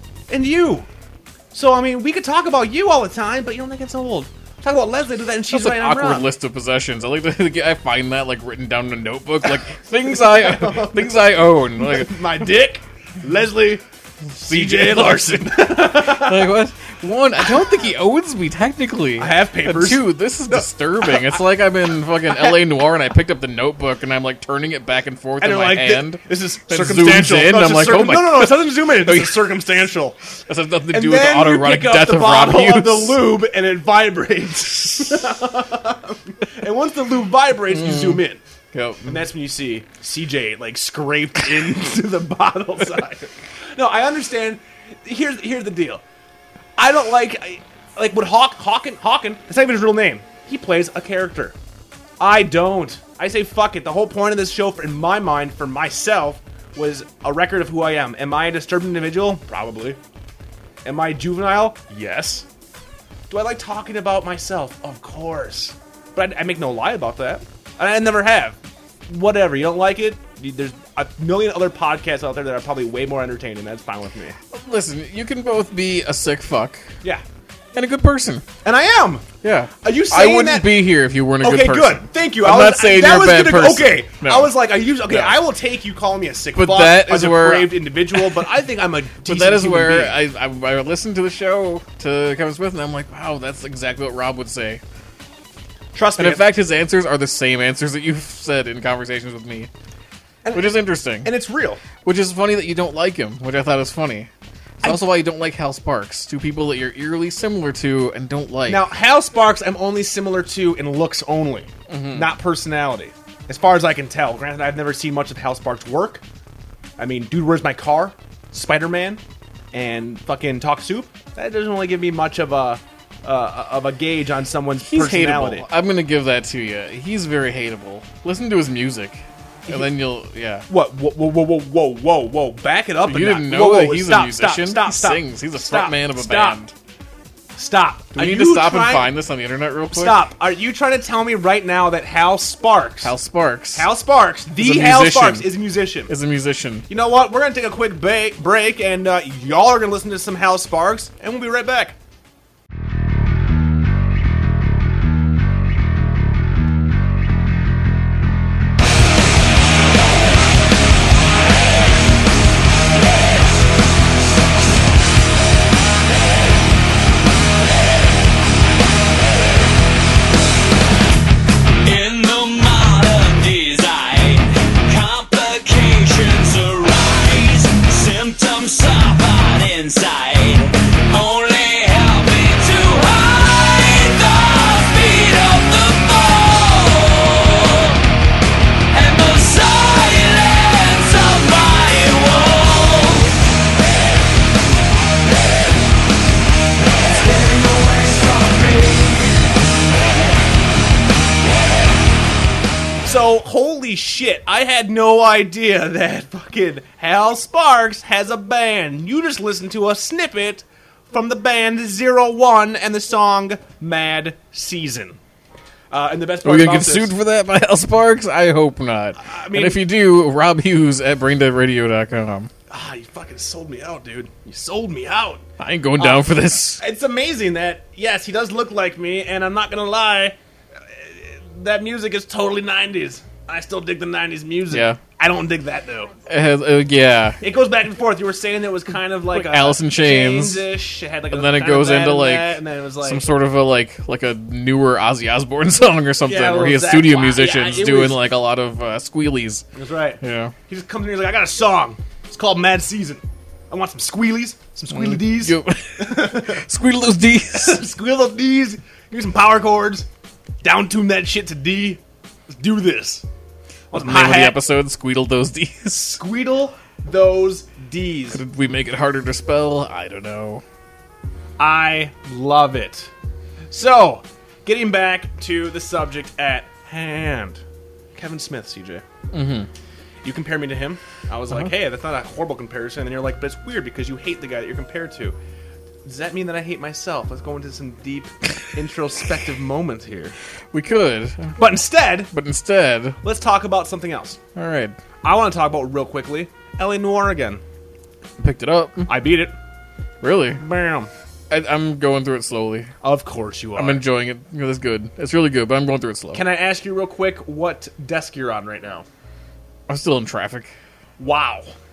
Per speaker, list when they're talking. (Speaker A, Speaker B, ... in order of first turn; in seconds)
Speaker A: 0.3-0.9, 1.5-6.3, 9.4-13.8, 14.3-16.5, 19.2-21.4, 22.2-22.6, 25.4-30.2, 30.9-38.4, 39.0-46.0, 46.8-51.5, 52.2-60.0, 60.8-62.5, 63.3-74.3, 78.6-79.2, 79.8-90.2, 95.9-96.5, 100.4-101.8, 104.8-105.1, 108.7-116.2, 117.0-119.2, 119.7-125.7, 129.7-129.9, 130.7-136.6, 137.6-139.1, 139.9-143.1, 143.7-146.1, 146.9-152.0, 203.0-215.2, 215.9-217.1, 219.2-219.8, 222.7-225.4, 226.0-230.3, 230.9-236.1, 237.4-243.3, 246.2-248.2, 249.7-256.6, 257.5-260.1, 260.6-263.2, 263.9-264.6, 266.1-268.4, 271.6-273.1, 273.7-277.6, 278.1-279.0, 280.2-285.4, 286.0-290.3, 291.6-292.3, 293.2-294.4, 295.2-297.6, 299.1-299.5, 300.6-301.1, 303.0-304.1, 306.3-309.1, 311.2-311.7
Speaker B: 5.5-12.2, 14.3-29.5, 30.4-33.2, 37.7-39.2, 74.5-76.9, 77.7-78.4, 79.4-84.5, 85.1-85.4, 86.5-88.4, 89.2-94.8, 96.2-99.7, 100.5-101.3, 102.0-104.3, 104.8-108.9, 111.9-112.3, 124.8-130.7, 133.0-136.7, 138.2-140.2, 143.0-143.9, 144.6-145.5, 146.1-146.9, 216.4-222.5, 225.6-226.8, 234.7-235.0, 236.3-237.4, 239.3-240.6, 241.3-249.6, 250.2-250.5, 254.9-257.8, 263.9-266.2, 268.3-270.6, 279.3-279.7, 290.7-291.6, 292.3-293.2, 294.6-295.0, 298.4-299.1, 300.2-300.6, 301.5-302.9, 303.8-306.4, 309.9-310.7
Speaker C: 171.8-188.0, 188.9-193.3